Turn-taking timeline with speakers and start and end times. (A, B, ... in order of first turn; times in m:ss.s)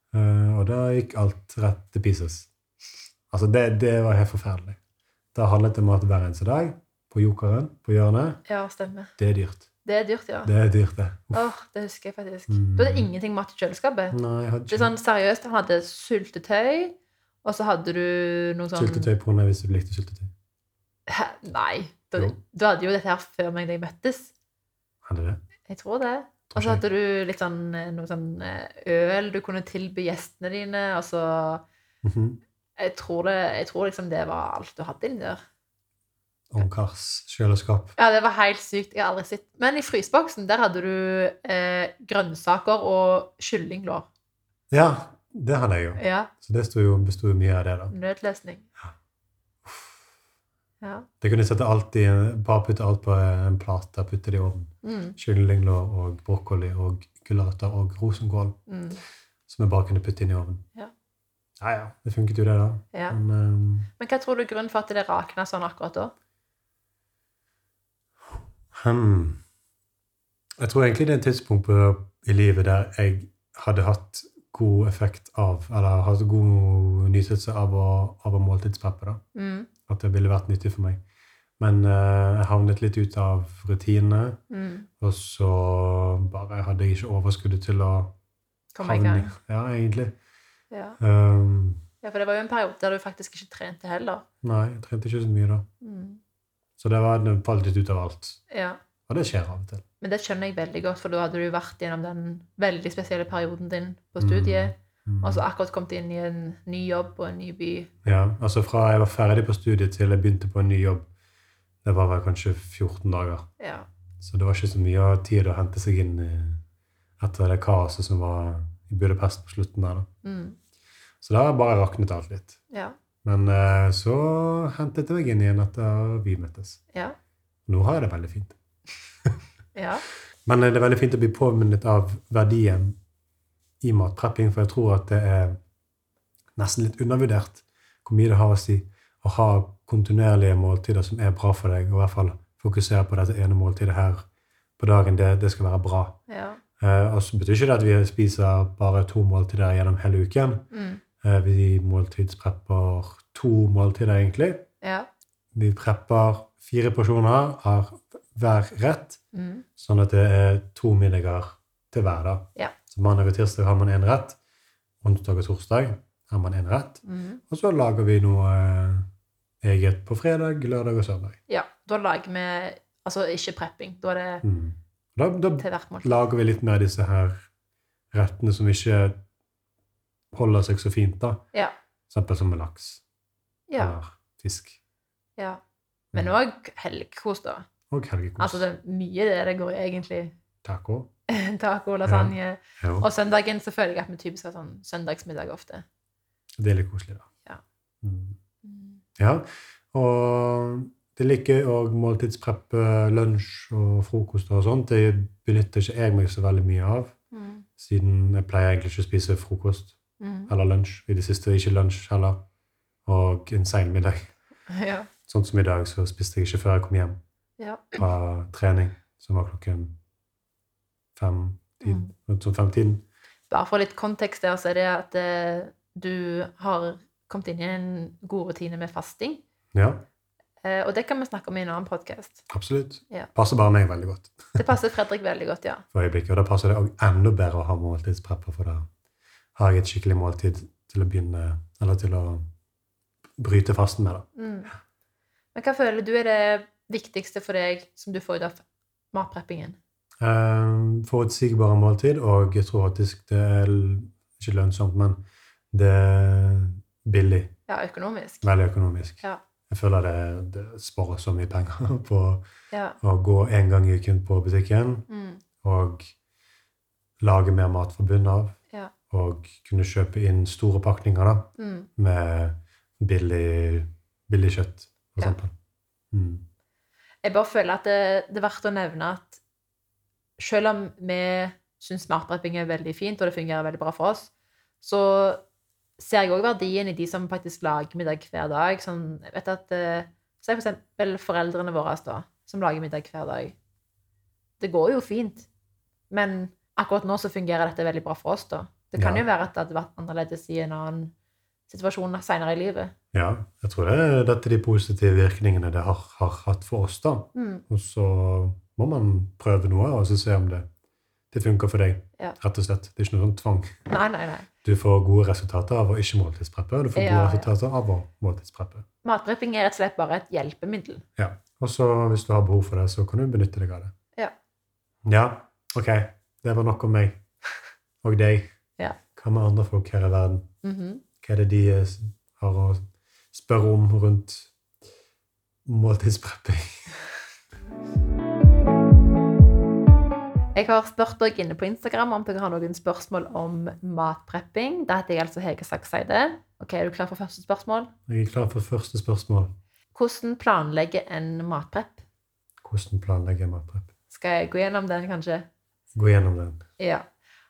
0:00.1-0:02.5 A
0:03.3-0:04.8 A
0:05.3-0:08.4 A
0:08.5-0:09.1 B
0:09.2-0:09.6 A
0:09.8-0:10.5 B
0:10.4-0:11.4 A
0:11.3-0:14.2 B
0:12.5-0:13.1 A
0:14.1-0:14.9 A
0:14.7-0:19.1 B
0:18.7-0:20.3 A
0:21.1-0:24.3 B
0:25.0-0:25.4 A
0:25.6-0:31.6 B
0:26.5-0:26.8 A
0:32.0-0:32.4 A
0:32.8-0:35.4 B
0:36.5-0:38.0 A
0:38.0-0:44.1 B
0:44.7-0:47.9 A
0:46.0-0:46.3 B
0:47.9-0:48.7 B
0:49.6-0:50.0 A
0:50.8-0:51.1 B
0:51.2-0:58.6 A
0:54.8-0:55.2 B
0:58.7-0:59.0 B
0:59.5-1:00.6 A
1:01.6-1:03.9 A
1:02.9-1:03.2 B
1:04.0-1:06.1 B
1:08.7-1:09.4 A
1:10.6-1:19.2 A
1:19.3-1:19.7 B
1:19.9-1:21.0 A
1:21.6-1:24.4 A
1:24.5-1:24.9 B
1:25.0-1:28.1 A
1:28.7-1:29.4 B
1:28.8-1:30.1 A
1:30.7-1:31.0 B
1:31.0-1:31.8 A
1:32.0-1:34.2 B
1:34.4-1:35.7 A
1:35.8-1:36.2 B
1:36.8-1:38.4 A
1:38.5-1:38.8 B
1:39.1-1:39.8 A
1:40.0-1:47.9 B
1:44.2-1:45.4 A
1:48.0-1:51.1 A
1:51.8-1:53.5 A
1:53.6-1:53.9 B
1:54.2-1:56.6 A
1:57.2-2:00.1 A
2:00.2-2:00.6 B
2:01.2-2:02.6 A
2:02.7-2:03.0 B
2:03.2-2:06.8 A
2:07.7-2:08.6 A
2:09.7-2:10.0 B
2:10.4-2:13.0 A
2:13.8-2:15.6 A
2:16.6-2:24.2 A
2:24.8-2:26.2 A
2:26.3-2:26.6 B
2:26.8-2:30.7 A
2:30.7-2:31.0 B
2:31.2-2:34.7 A
2:34.8-2:35.1 B
2:35.5-2:39.2 A
2:39.3-2:39.6 B
2:39.8-2:44.4 A
2:45.0-2:49.1 A
2:47.0-2:47.4 B
2:49.6-2:51.4 A
2:51.5-2:54.4 B
2:54.4-2:57.4 A
2:55.6-2:56.3 B
2:58.1-2:59.2 A
3:00.3-3:01.4 A
3:02.1-3:03.0 A
3:03.7-3:04.0 B
3:03.8-3:04.8 A
3:06.1-3:07.6 B
3:07.9-3:08.6 A
3:08.4-3:10.3 B
3:10.6-3:11.1 A
3:11.3-3:15.8 B
3:12.0-3:13.1 A
3:16.6-3:17.3 A
3:18.0-3:18.4 A
3:18.6-3:19.0 B
3:19.2-3:27.1 A
3:27.3-3:27.6 B
3:27.8-3:30.0 A
3:30.2-3:30.5 B
3:30.5-3:32.4 A
3:33.0-3:34.3 A
3:34.7-3:35.1 B
3:35.3-3:37.2 A
3:37.6-3:38.0 B
3:38.0-3:39.9 A
3:41.2-3:43.0 A
3:41.8-3:42.1 B
3:43.5-3:49.4 B
3:49.7-3:50.0 A
3:50.6-3:52.4 B
3:52.5-3:54.6 A
3:54.6-3:55.8 B
3:55.9-3:58.9 A
3:59.6-4:02.4 A
4:03.4-4:04.3 A
4:04.4-4:04.7 B
4:05.5-4:08.6 B
4:09.1-4:09.8 B
4:10.2-4:15.2 A
4:15.7-4:17.5 A
4:17.7-4:18.5 B
4:18.4-4:22.4 A
4:22.7-4:23.0 B
4:23.0-4:25.1 A
4:25.1-4:25.4 B
4:25.6-4:26.1 A
4:27.2-4:28.6 A
4:29.1-4:35.5 A
4:31.6-4:31.9 B
4:36.1-4:36.4 A
4:37.2-4:39.4 B
4:40.4-4:45.4 B
4:46.0-4:53.6 B
4:54.6-4:55.5 B
4:56.1-5:01.1 B
4:59.0-4:59.2 A
5:01.7-5:02.9 B
5:03.1-5:10.7 A
5:07.3-5:07.6 B
5:11.3-5:13.8 A
5:13.9-5:14.5 B
5:14.6-5:18.8 A
5:16.9-5:17.5 B
5:19.0-5:21.0 B
5:21.2-5:23.9 A
5:25.0-5:27.2 A
5:28.0-5:28.5 A
5:29.1-5:30.5 A
5:30.6-5:31.0 B
5:31.2-5:34.5 A
5:35.6-5:36.9 A
5:40.5-5:47.9 B
5:48.1-5:49.5 A
5:49.9-5:52.0 B
5:52.6-5:53.9 A
5:54.1-5:55.5 B
5:55.9-5:56.6 A
5:56.8-5:57.0 B